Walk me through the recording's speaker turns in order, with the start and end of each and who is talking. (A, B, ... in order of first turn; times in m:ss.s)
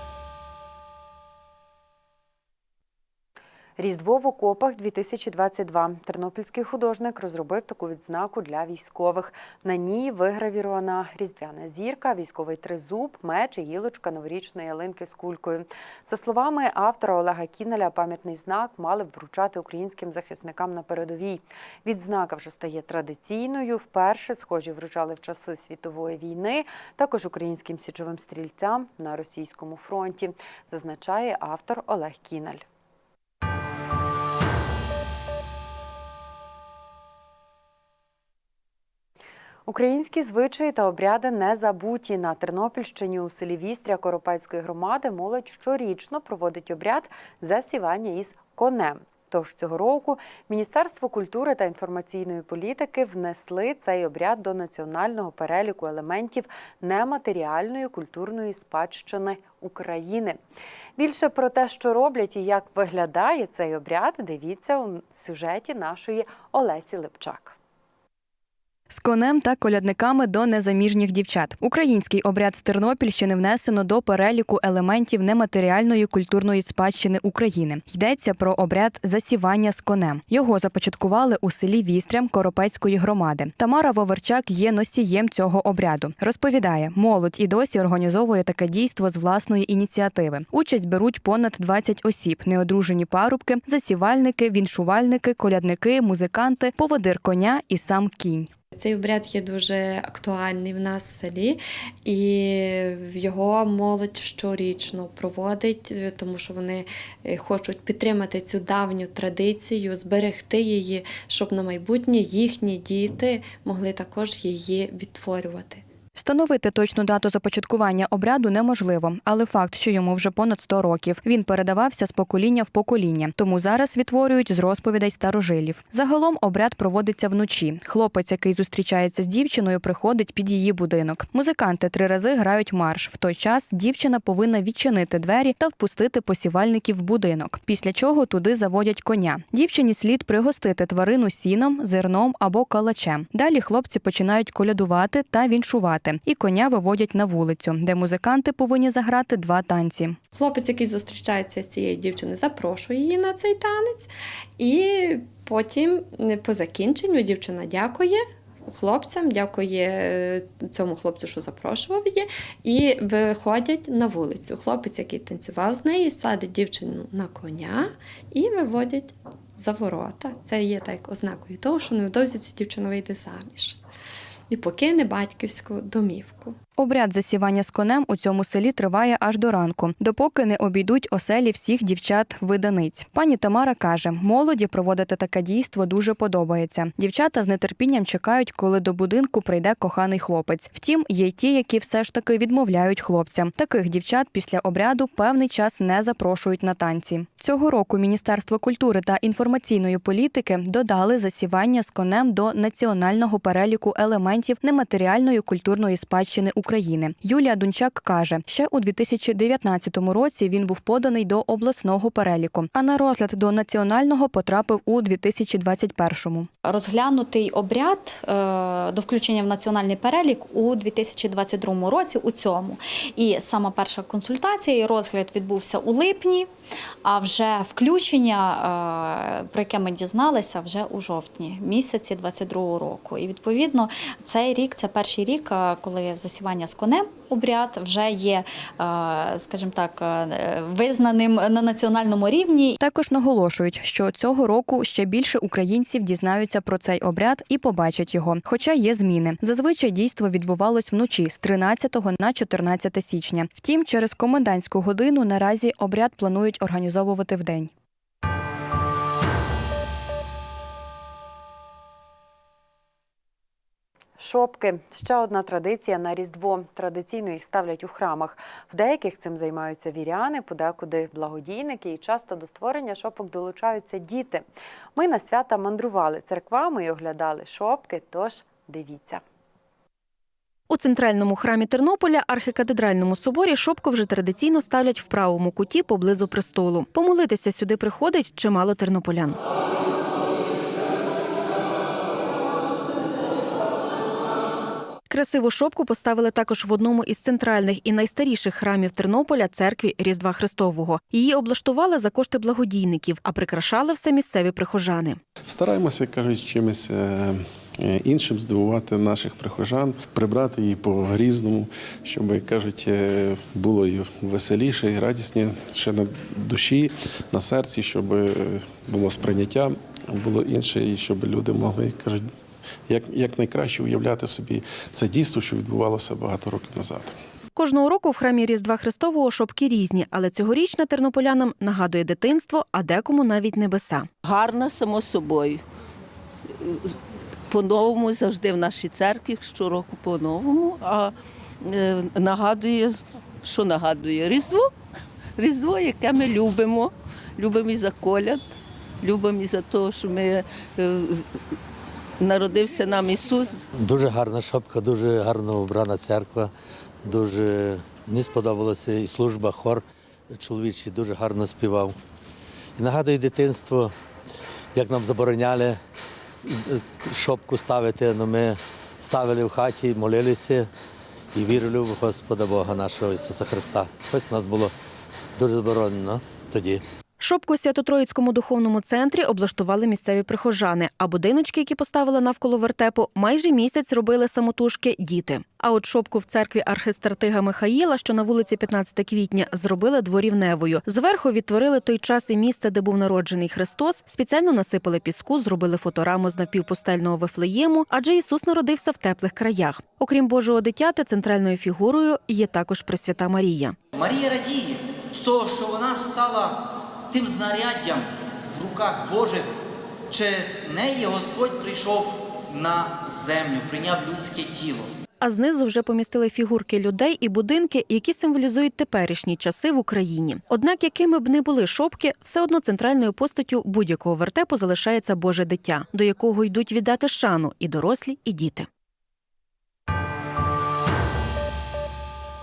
0:03.8-0:32.6 A
0:39.6-1:00.4 A
1:01.0-1:07.5 A
1:08.9-1:38.5 B
1:38.7-1:55.8 C
1:56.2-2:30.2 B
2:30.3-2:53.8 C
2:54.5-2:56.6 C
2:56.8-3:36.5 B
3:36.6-3:46.5 D
3:47.0-4:02.8 D
4:02.8-4:17.7 B
4:24.2-4:34.4 A
4:34.9-4:39.2 A
4:40.7-4:49.4 E
4:55.1-5:05.2 E
5:05.4-5:22.3 F
5:22.9-5:27.2 F
5:27.6-5:34.1 E
5:34.2-5:35.6 G
5:36.6-5:36.9 G
5:37.5-5:44.7 G
5:45.4-5:51.4 G
5:52.2-5:53.7 G
5:53.8-5:56.5 H
5:57.0-6:01.9 H
6:02.8-6:03.9 H
6:04.7-6:05.8 H
6:06.4-6:10.7 H
6:11.3-6:14.7 H
6:15.4-6:16.8 H
6:17.2-6:43.8 E
6:43.9-6:49.5 I
6:50.1-6:54.9 I
6:55.2-7:08.7 E